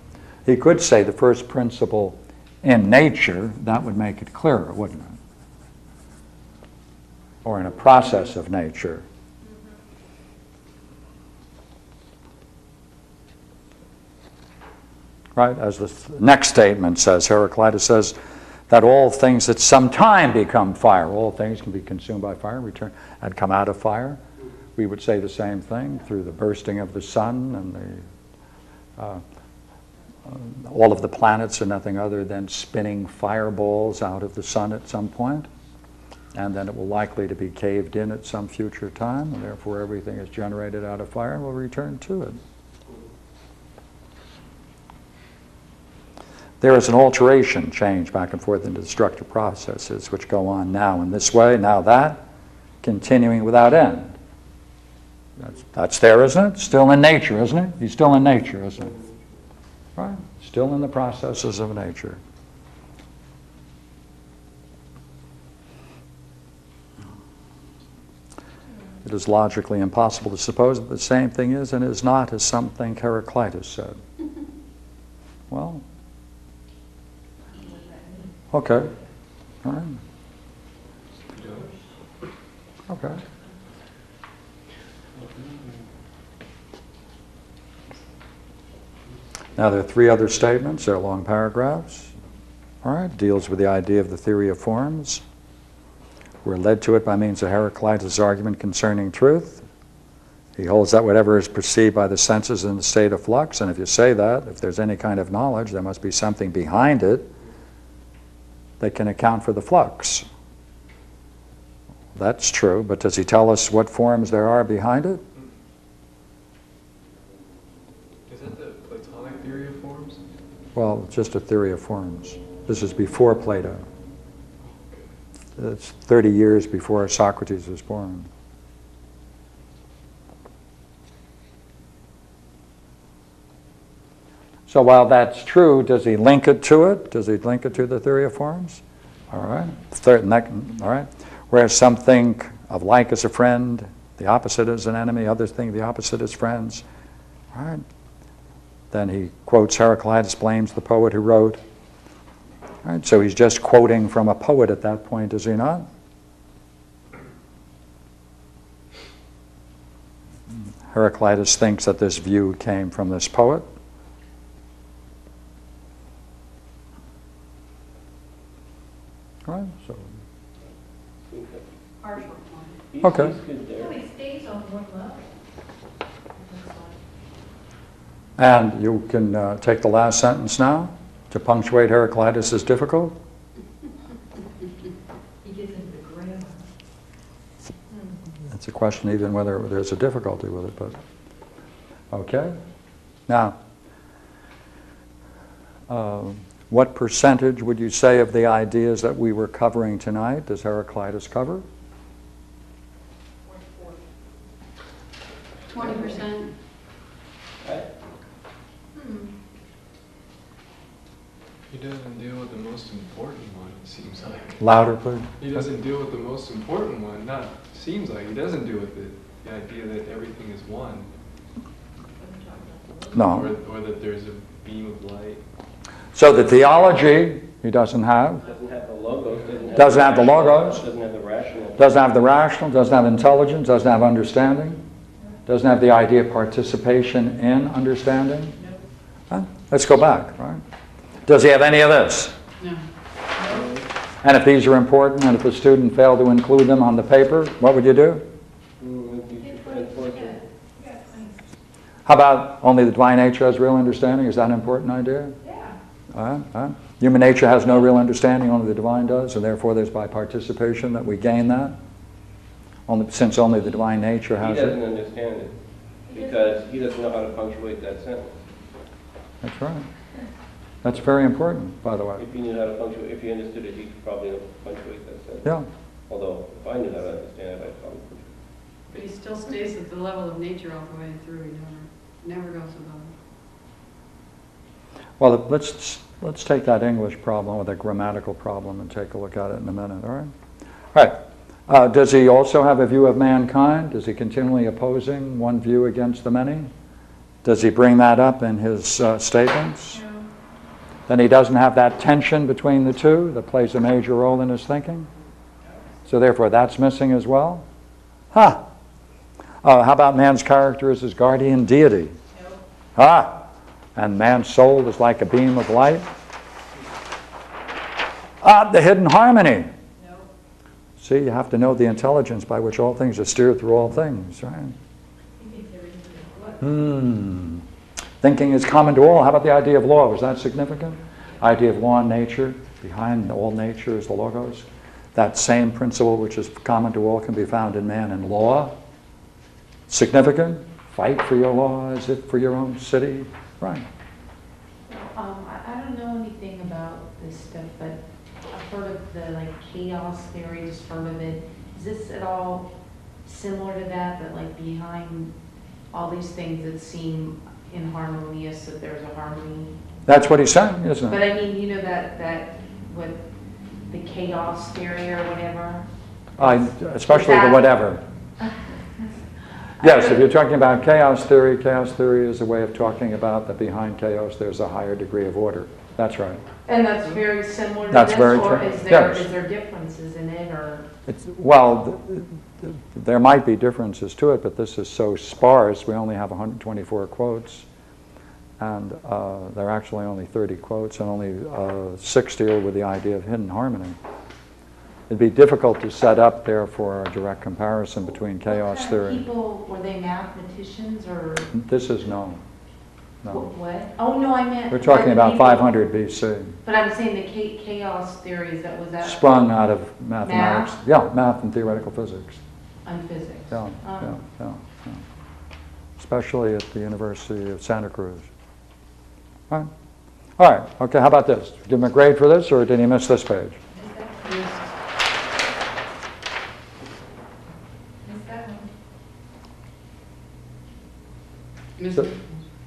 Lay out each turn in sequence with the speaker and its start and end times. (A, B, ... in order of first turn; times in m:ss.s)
0:00.5-0:05.2 A
0:07.4-0:09.0 A
0:15.4-0:18.2 A
0:18.7-0:24.2 A
0:24.8-0:28.0 A
0:29.0-0:29.2 A
0:30.3-0:35.5 A
0:36.4-0:42.4 A
0:46.6-0:52.2 A
0:52.8-0:54.2 A
0:55.4-0:59.0 A
1:00.0-1:02.2 A
1:09.0-1:14.0 A
1:15.5-1:15.8 A
1:17.6-1:18.4 B
1:18.5-1:18.9 A
1:19.6-1:20.0 A
1:21.3-1:21.7 C
1:22.9-1:23.2 A
1:29.6-1:32.1 A
1:32.8-1:35.2 A
1:36.4-1:39.6 A
1:40.6-1:47.3 A
1:48.8-1:50.3 A
1:52.2-1:55.2 A
1:58.3-2:00.2 C
2:00.8-2:03.8 A
2:04.6-2:05.1 C
2:05.6-2:08.3 A
2:14.7-2:26.8 A
2:27.5-2:27.8 A
2:28.9-2:31.6 A
2:32.8-2:35.9 A
2:40.9-2:43.7 A
2:49.5-2:50.1 A
2:51.3-2:51.6 D
2:52.0-2:52.7 E
2:52.9-2:53.9 D
2:53.0-2:53.4 A
2:53.8-2:55.2 B
2:56.4-2:56.9 B
2:58.4-3:03.2 A
3:05.4-3:06.7 B
3:08.5-3:11.0 A
3:12.1-3:12.6 A
3:13.3-3:13.6 A
3:15.9-3:21.6 A
3:23.5-3:24.0 B
3:25.7-3:26.5 E
3:27.6-3:27.9 D
3:29.0-3:29.3 E
3:31.7-3:34.6 C
3:34.6-3:35.7 A
3:35.4-3:41.1 C
3:42.2-3:43.3 B
3:43.1-3:43.5 A
3:43.2-3:45.4 C
3:46.2-3:48.4 A
3:48.4-3:52.0 D
3:49.7-3:50.9 A
3:51.8-3:54.8 A
3:55.5-3:58.6 A
3:59.3-4:00.6 A
4:01.3-4:02.4 A
4:03.5-4:03.8 D
4:04.2-4:08.3 A
4:08.8-4:10.4 D
4:09.4-4:11.4 B
4:12.1-4:15.4 A
4:15.4-4:15.8 B
4:16.1-4:21.8 A
4:22.9-4:24.8 A
4:24.4-4:25.6 D
4:26.1-4:28.4 D
4:26.1-4:26.5 B
4:29.4-4:29.9 A
4:30.8-4:32.2 A
4:32.2-4:35.6 D
4:36.1-4:38.3 D
4:38.9-4:43.1 E
4:45.2-4:50.3 A
4:50.9-4:56.7 A
4:57.4-5:00.0 A
5:01.1-5:05.1 A
5:06.1-5:07.7 A
5:08.3-5:08.6 A
5:09.6-5:12.2 A
5:12.3-5:12.6 B
5:13.0-5:16.1 A
5:18.4-5:19.7 A
5:20.0-5:20.3 B
5:21.0-5:24.8 A
5:25.4-5:26.7 B
5:26.6-5:27.6 A
5:28.2-5:38.8 A
5:39.9-5:43.9 A
5:44.9-5:52.7 F
5:53.2-5:55.4 F
5:55.9-5:59.8 F
6:00.1-6:01.2 A
6:01.1-6:03.3 F
6:03.9-6:05.9 F
6:06.4-6:08.0 A
6:06.4-6:07.7 F
6:09.8-6:10.3 F
6:09.8-6:16.4 A
6:16.7-6:20.9 F
6:17.9-6:19.3 A
6:21.1-6:27.7 A
6:28.6-6:34.0 A
6:35.1-6:39.2 A
6:38.5-6:41.5 F
6:41.5-6:42.4 A
6:43.2-6:43.5 A
6:43.3-6:45.7 F
6:44.7-6:46.6 A
6:46.6-6:49.4 F
6:49.0-6:52.4 A
6:50.2-6:50.8 F
6:52.8-6:54.2 F
6:53.5-6:55.0 A
6:56.0-6:58.3 A
7:00.4-7:03.6 A
7:03.7-7:04.5 B
7:04.2-7:04.6 E
7:08.0-7:08.7 B
7:11.8-7:12.1 E